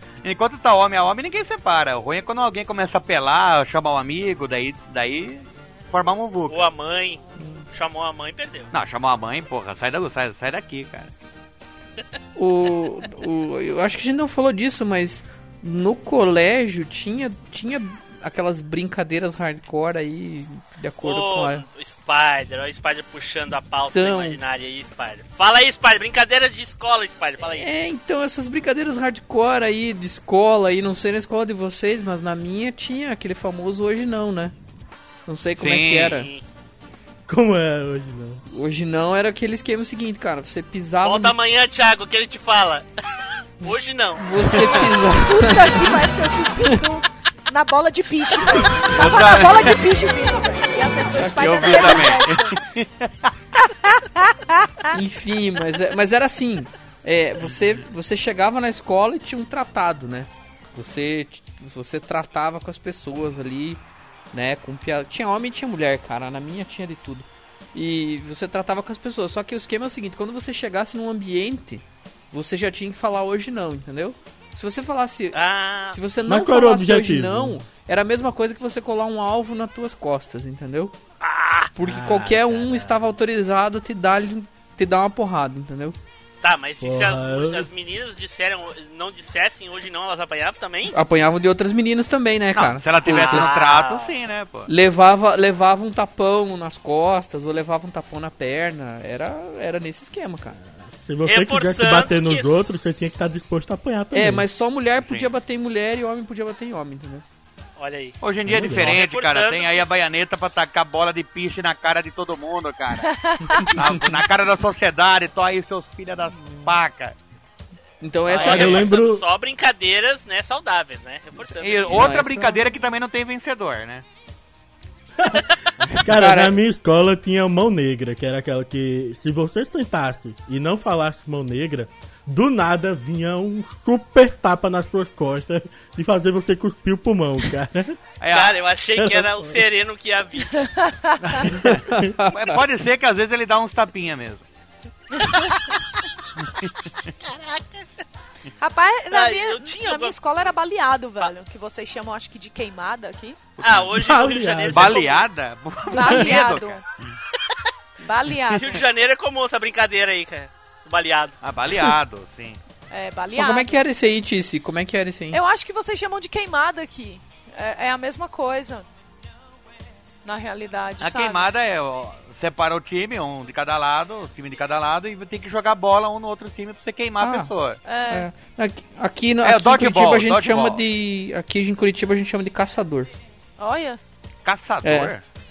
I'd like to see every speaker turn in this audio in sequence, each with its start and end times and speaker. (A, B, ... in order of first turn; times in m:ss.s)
0:00.2-0:06.7 A
0:06.5-0:08.7 B
0:07.4-0:07.6 C
0:08.7-0:11.1 A
0:12.4-0:21.6 C
0:21.0-0:27.7 B
0:23.9-0:24.4 C
0:27.6-0:34.5 C
0:35.3-0:36.3 C
0:35.6-0:36.2 A
0:36.1-0:36.4 B
0:37.3-0:38.4 D
0:38.5-0:41.4 C
0:41.0-0:42.9 B
0:43.6-0:44.8 B
0:44.2-0:46.0 C
0:45.2-0:52.6 E
0:48.8-0:49.9 A
0:51.2-0:52.2 C
0:51.4-0:53.3 A
0:53.6-0:54.9 E
0:54.9-1:03.8 C
1:04.3-1:15.4 C
1:15.3-1:16.0 B
1:15.9-1:21.0 C
1:16.3-1:17.6 D
1:21.2-1:21.7 B
1:21.8-1:26.0 C
1:21.8-1:23.1 D
1:26.4-1:31.0 B
1:26.8-1:27.7 D
1:30.9-1:33.5 C
1:32.5-1:34.7 A
1:33.0-1:34.2 B
1:34.7-1:40.6 C
1:40.9-1:44.4 D
1:41.2-1:42.6 B
1:44.1-1:47.2 C
1:45.0-1:45.3 A
1:47.8-1:48.2 B
1:48.2-1:57.2 A
1:48.5-1:49.0 D
1:48.8-1:50.1 B
1:53.0-1:53.8 E
1:58.0-1:58.8 C
1:58.3-1:58.8 A
1:58.3-2:02.1 B
1:58.4-1:59.2 D
2:01.6-2:04.0 A
2:01.9-2:02.7 C
2:05.4-2:05.7 B
2:06.0-2:18.0 D
2:06.1-2:06.6 C
2:18.2-2:18.6 A
2:18.3-2:20.7 B
2:19.0-2:19.5 D
2:20.7-2:21.4 E
2:21.2-2:24.5 A
2:21.7-2:22.6 C
2:26.4-2:26.9 A
2:27.2-2:27.8 B
2:28.6-2:33.4 E
2:29.1-2:30.2 B
2:33.6-2:34.0 A
2:33.6-2:35.2 B
2:34.0-2:35.0 D
2:34.7-2:36.8 A
2:35.9-2:36.8 E
2:38.0-2:38.8 E
2:38.5-2:41.4 B
2:41.4-2:42.6 A
2:42.9-2:43.8 E
2:43.4-2:45.4 C
2:45.3-2:48.9 E
2:50.2-2:51.5 E
2:51.0-2:57.8 A
2:57.2-2:57.5 C
2:57.8-2:58.3 E
2:58.1-3:03.1 C
2:59.4-3:00.8 A
3:03.6-3:04.0 E
3:04.4-3:05.2 A
3:04.8-3:05.1 C